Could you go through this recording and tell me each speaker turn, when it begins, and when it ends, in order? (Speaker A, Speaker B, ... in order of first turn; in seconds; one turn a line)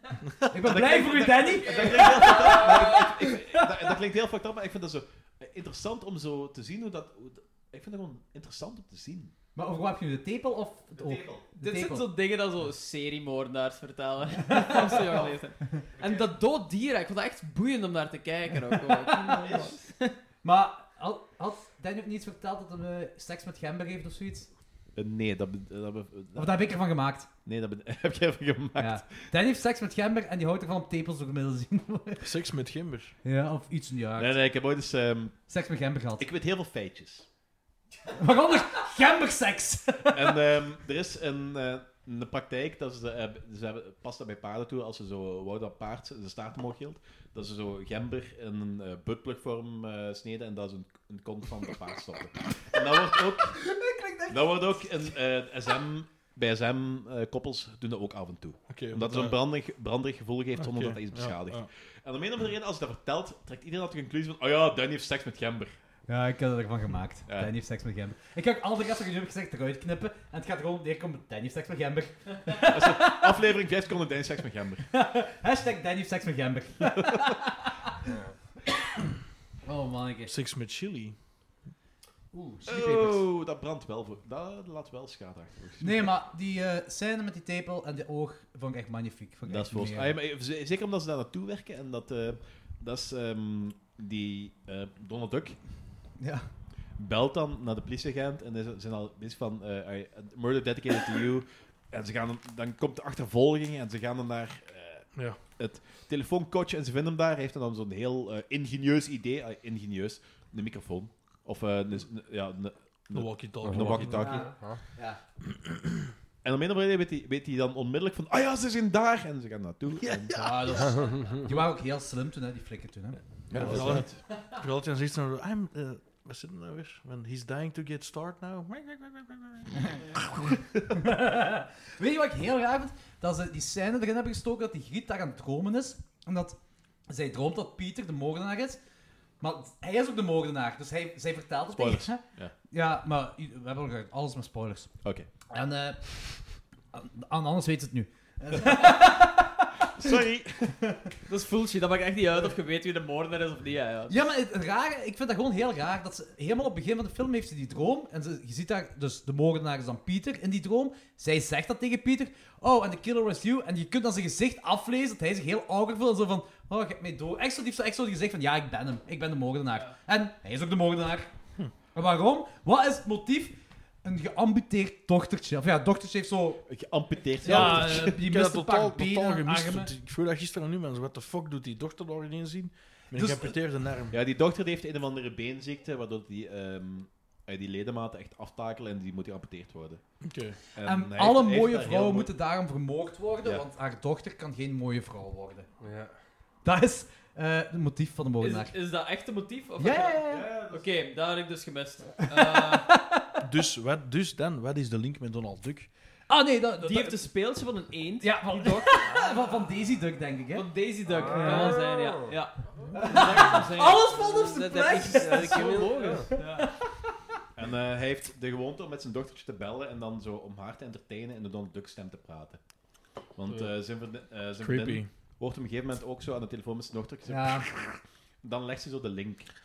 Speaker A: 0.2-0.6
Speaker B: 0.5-3.9
Speaker C: 0.6-9.3
Speaker D: 1.6-3.1
Speaker B: 9.6-12.1
Speaker C: 10.9-11.5
Speaker D: 11.5-20.2
Speaker C: 14.9-16.3
Speaker B: 18.7-19.4
Speaker C: 19.4-19.8
Speaker B: 20.4-24.5
Speaker C: 24.9-26.7
Speaker B: 26.4-27.3
Speaker C: 27.4-29.3
Speaker B: 28.8-32.3
Speaker A: 32.2-33.1
Speaker B: 33.2-34.4
Speaker C: 34.2-35.5
Speaker B: 35.5-36.3
Speaker C: 36.2-37.3
Speaker B: 38.1-40.4
Speaker C: 40.1-53.8
Speaker B: 53.3-55.1
Speaker C: 54.3-65.7
Speaker A: 58.7-59.4
Speaker A: 60.6-61.7
Speaker B: 66.1-73.4
Speaker C: 67.3-67.5
Speaker C: 72.7-74.9
Speaker B: 74.9-77.8
Speaker C: 77.0-77.3
Speaker B: 79.6-80.3
Speaker A: 80.3-81.2
Speaker B: 82.3-83.2
Speaker C: 82.7-86.1
Speaker B: 85.8-90.2
Speaker C: 89.5-96.0
Speaker B: 96.2-96.5
Speaker C: 97.0-114.6
Speaker A: 105.1-105.4
Speaker A: 113.1-114.4
Speaker E: 113.6-114.8
Speaker B: 114.1-115.2
Speaker C: 116.4-120.7
Speaker A: 120.0-120.9
Speaker B: 120.3-124.1
Speaker E: 120.8-121.5
Speaker C: 123.5-124.2
Speaker A: 123.5-129.9
Speaker B: 130.9-138.8
Speaker B: 139.4-144.9
Speaker C: 141.7-142.5
Speaker C: 145.0-145.3
Speaker B: 145.5-150.1
Speaker C: 149.9-151.0
Speaker D: 151.3-154.2
Speaker B: 154.1-171.3
Speaker B: 171.9-176.7
Speaker C: 176.7-178.2
Speaker B: 177.4-179.9
Speaker A: 177.4-184.2
Speaker B: 183.1-183.6
Speaker C: 184.1-190.0
Speaker A: 190.2-190.6
Speaker C: 190.6-192.3
Speaker B: 190.8-195.7
Speaker E: 195.8-196.2
Speaker B: 196.7-198.8
Speaker D: 198.4-203.0
Speaker B: 199.8-200.5
Speaker C: 200.3-200.8
Speaker B: 202.5-203.3
Speaker A: 203.4-205.9
Speaker B: 206.3-207.5
Speaker D: 206.8-209.4
Speaker B: 208.2-210.7
Speaker D: 210.5-214.2
Speaker E: 211.1-212.3
Speaker B: 211.3-211.8
Speaker B: 212.9-217.2
Speaker E: 213.9-216.3
Speaker D: 214.9-216.7
Speaker C: 217.6-222.6
Speaker C: 223.3-229.5
Speaker A: 223.5-223.7
Speaker A: 224.6-225.1
Speaker B: 227.3-227.7